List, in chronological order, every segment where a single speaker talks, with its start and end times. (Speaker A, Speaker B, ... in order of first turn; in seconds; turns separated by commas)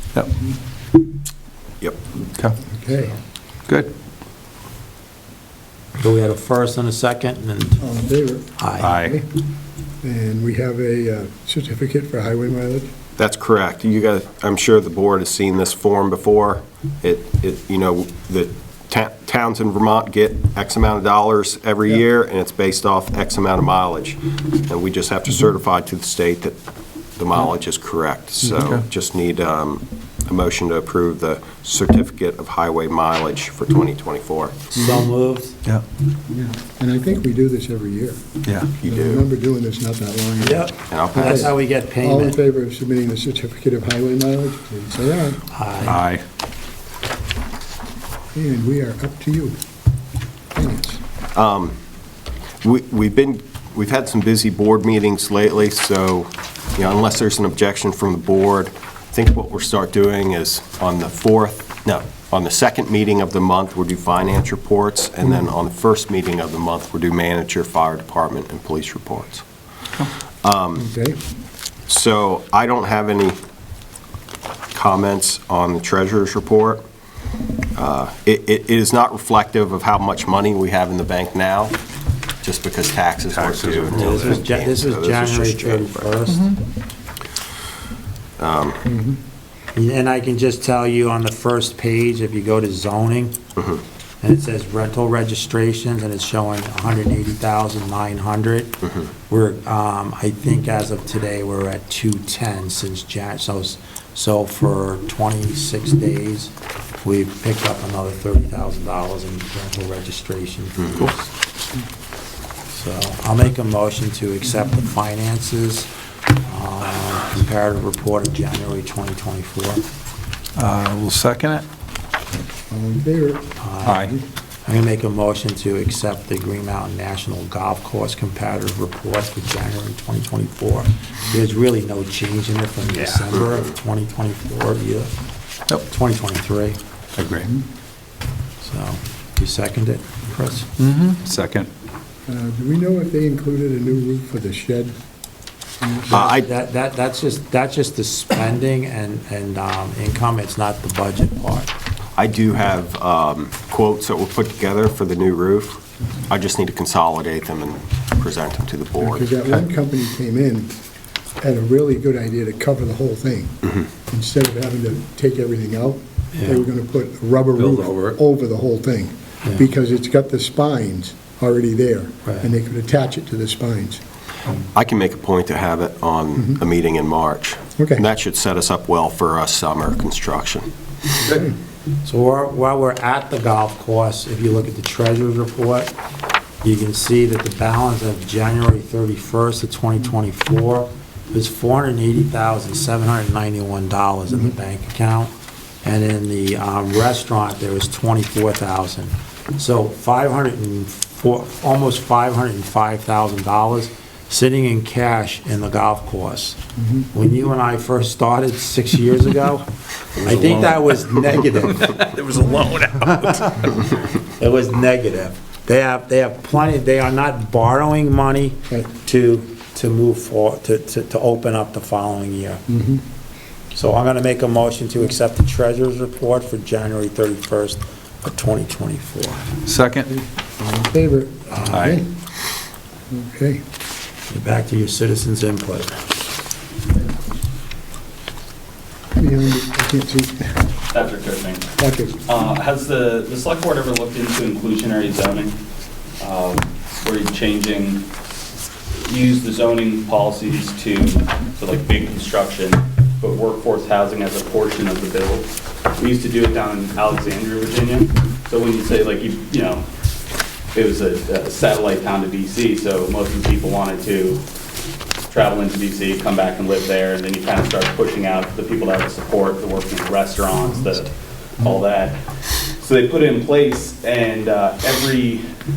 Speaker A: 2.6-3.2, Speaker B: 6.0-7.8, Speaker A: 7.8-9.3, Speaker B: 8.6-8.9, Speaker C: 8.8-9.2, Speaker A: 10.0-12.9, Speaker D: 13.2-26.6, Speaker D: 27.2-34.6, Speaker C: 28.5-28.9, Speaker B: 34.7-35.6, Speaker A: 34.8-35.0, Speaker A: 36.3-38.2, Speaker C: 38.5-38.7, Speaker D: 38.8-39.2, Speaker A: 38.8-45.5, Speaker B: 40.4-42.4, Speaker D: 40.9-41.4, Speaker B: 45.5-46.0, Speaker C: 45.9-46.2, Speaker A: 48.4-49.6, Speaker A: 50.5-51.0, Speaker D: 51.4-51.8, Speaker D: 52.6-69.5, Speaker D: 70.4-70.9, Speaker A: 70.8-71.2, Speaker D: 71.9-73.4, Speaker D: 74.7-76.8, Speaker D: 77.8-81.8, Speaker D: 82.4-86.1, Speaker C: 83.3-84.4, Speaker B: 83.9-86.5, Speaker C: 86.3-86.6, Speaker D: 88.4-88.8, Speaker A: 88.9-89.2, Speaker B: 89.8-93.4, Speaker B: 94.2-111.3, Speaker B: 112.7-115.9, Speaker B: 116.4-119.8, Speaker C: 120.6-121.7, Speaker A: 122.7-123.5, Speaker B: 123.6-124.1, Speaker C: 123.8-124.2, Speaker B: 124.7-135.1, Speaker B: 135.8-136.8, Speaker C: 137.2-137.5, Speaker B: 138.6-140.7, Speaker C: 140.8-141.7, Speaker A: 142.3-144.9, Speaker A: 145.8-146.2, Speaker D: 146.1-146.5, Speaker B: 146.1-151.7, Speaker D: 152.2-159.3, Speaker A: 159.0-160.8, Speaker A: 161.4-174.0, Speaker B: 166.3-166.7, Speaker C: 167.6-168.2, Speaker D: 174.6-180.7, Speaker A: 176.4-176.6, Speaker A: 177.8-178.0, Speaker A: 181.2-181.6, Speaker B: 182.0-185.9, Speaker B: 186.6-206.6, Speaker A: 194.3-194.6, Speaker A: 206.8-207.1, Speaker B: 207.1-209.7, Speaker C: 210.2-213.8, Speaker B: 210.2-212.2, Speaker B: 213.0-222.6, Speaker A: 222.7-223.0, Speaker B: 223.7-229.5, Speaker C: 229.7-230.1, Speaker A: 230.6-232.1, Speaker B: 231.5-231.9, Speaker C: 231.7-232.0, Speaker A: 233.1-233.6, Speaker B: 234.3-236.0, Speaker A: 239.2-240.7, Speaker E: 240.9-241.7, Speaker A: 241.8-242.2, Speaker E: 242.2-245.6, Speaker E: 246.2-248.1, Speaker E: 249.0-259.9, Speaker E: 260.7-264.4, Speaker E: 265.3-272.2, Speaker E: 272.8-275.5